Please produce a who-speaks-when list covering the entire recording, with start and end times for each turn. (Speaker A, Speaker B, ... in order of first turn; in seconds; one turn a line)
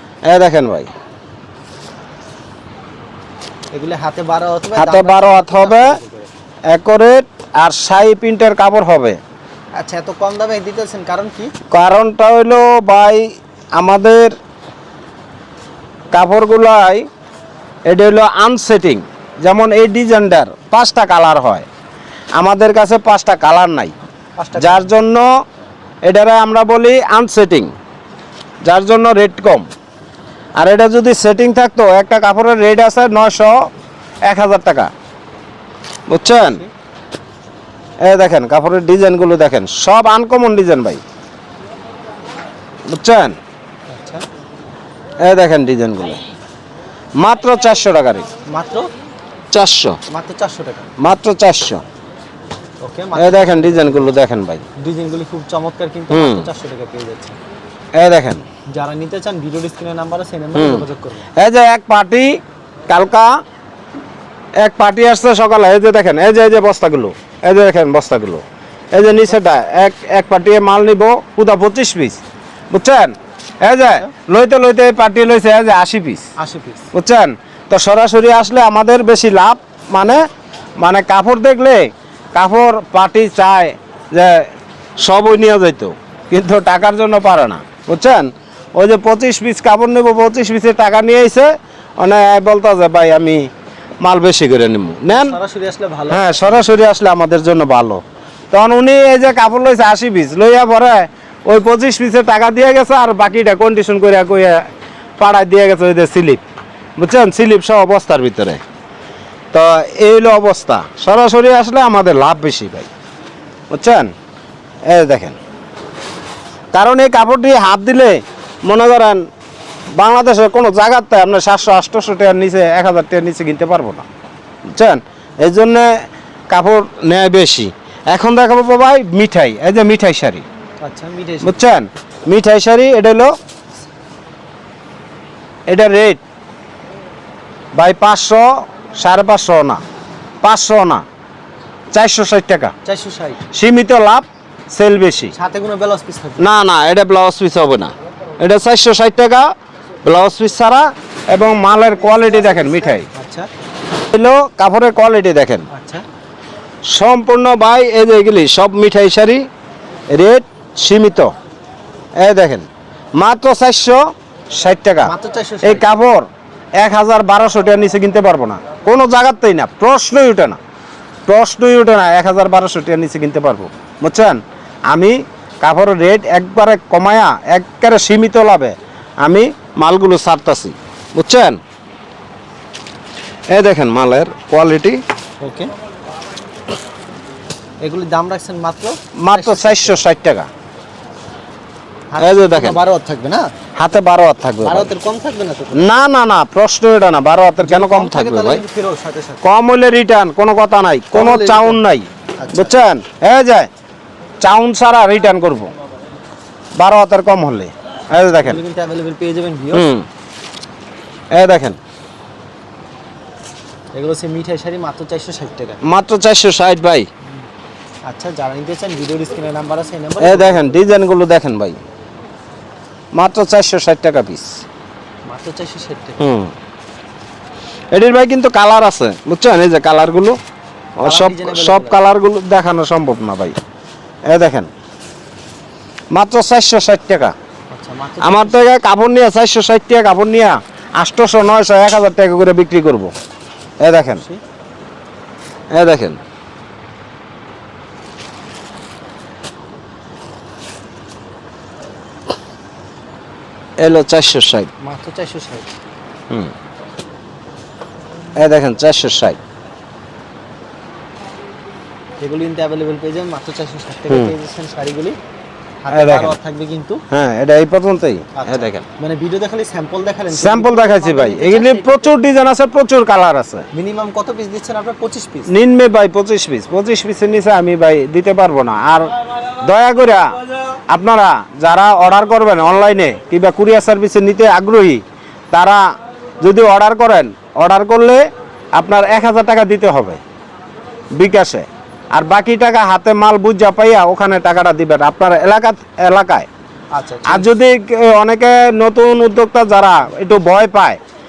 Speaker A: 0.3-0.9
Speaker B: 3.7-6.3
Speaker A: 4.8-6.0
Speaker A: 6.7-9.2
Speaker B: 9.8-11.5
Speaker A: 11.7-14.4
Speaker A: 16.1-17.1
Speaker A: 17.9-21.7
Speaker A: 22.4-23.9
Speaker B: 24.4-24.9
Speaker A: 24.6-25.3
Speaker A: 26.1-27.7
Speaker A: 28.6-29.7
Speaker A: 30.6-33.7
Speaker A: 34.2-34.9
Speaker A: 36.1-36.6
Speaker B: 36.3-36.7
Speaker A: 38.0-41.0
Speaker A: 42.9-43.4
Speaker B: 43.9-44.2
Speaker A: 45.2-46.2
Speaker A: 47.2-48.3
Speaker B: 48.5-48.9
Speaker A: 49.5-50.0
Speaker B: 50.1-50.9
Speaker A: 51.0-51.8
Speaker B: 52.8-54.1
Speaker A: 53.2-54.7
Speaker B: 54.8-57.4
Speaker A: 56.1-56.5
Speaker A: 58.0-58.4
Speaker B: 58.7-61.3
Speaker A: 60.5-63.3
Speaker A: 64.6-72.2
Speaker A: 72.7-76.2
Speaker B: 76.4-76.9
Speaker A: 76.9-80.2
Speaker A: 80.8-84.5
Speaker A: 85.0-93.5
Speaker A: 94.0-95.4
Speaker B: 95.1-96.7
Speaker A: 96.1-104.7
Speaker A: 105.2-106.4
Speaker A: 107.0-108.6
Speaker A: 109.5-112.9
Speaker A: 113.7-114.1
Speaker A: 114.9-115.4
Speaker A: 116.7-119.2
Speaker A: 120.0-124.1
Speaker A: 124.7-130.4
Speaker B: 130.8-131.6
Speaker A: 131.4-133.3
Speaker A: 135.7-136.2
Speaker A: 137.7-139.8
Speaker A: 140.4-141.0
Speaker A: 141.9-142.7
Speaker B: 142.8-143.4
Speaker A: 143.5-145.3
Speaker B: 145.3-146.4
Speaker A: 146.4-149.5
Speaker A: 150.0-153.1
Speaker B: 153.1-153.5
Speaker A: 154.1-155.7
Speaker B: 155.7-156.0
Speaker A: 156.8-159.5
Speaker A: 160.1-161.3
Speaker A: 162.2-165.1
Speaker B: 165.0-165.9
Speaker A: 165.6-166.3
Speaker A: 166.8-170.6
Speaker A: 171.3-181.6
Speaker A: 183.5-185.0
Speaker B: 185.4-185.7
Speaker B: 187.8-190.1
Speaker A: 189.2-190.5
Speaker B: 192.1-193.5
Speaker A: 192.2-192.8
Speaker A: 193.8-194.9
Speaker B: 194.6-195.8
Speaker A: 195.7-198.6
Speaker B: 197.6-199.4
Speaker A: 199.4-203.7
Speaker B: 201.1-201.8
Speaker B: 202.4-202.8
Speaker A: 204.4-205.7
Speaker A: 206.8-208.6
Speaker B: 208.4-209.9
Speaker A: 209.7-210.1
Speaker A: 211.3-211.8
Speaker B: 213.9-215.8
Speaker A: 215.8-217.1
Speaker B: 218.1-220.8
Speaker A: 220.2-221.8
Speaker A: 223.1-224.6
Speaker B: 225.3-226.2
Speaker A: 226.2-226.5
Speaker A: 227.9-230.4
Speaker A: 231.0-233.6
Speaker B: 231.0-232.0
Speaker A: 234.3-234.7
Speaker A: 236.1-237.3
Speaker B: 237.7-238.7
Speaker A: 238.2-243.1
Speaker A: 243.8-244.2
Speaker B: 244.0-244.4
Speaker A: 245.7-246.2
Speaker A: 253.8-254.7
Speaker B: 254.8-255.7
Speaker A: 258.4-259.4
Speaker B: 262.2-265.2
Speaker B: 265.8-267.0
Speaker A: 265.9-266.3
Speaker A: 267.1-268.9
Speaker B: 268.4-272.1
Speaker A: 270.3-273.7
Speaker B: 273.7-275.5
Speaker A: 275.5-280.3
Speaker A: 280.9-285.8
Speaker A: 286.4-290.2
Speaker A: 291.1-296.5
Speaker B: 296.9-297.5
Speaker A: 297.3-301.0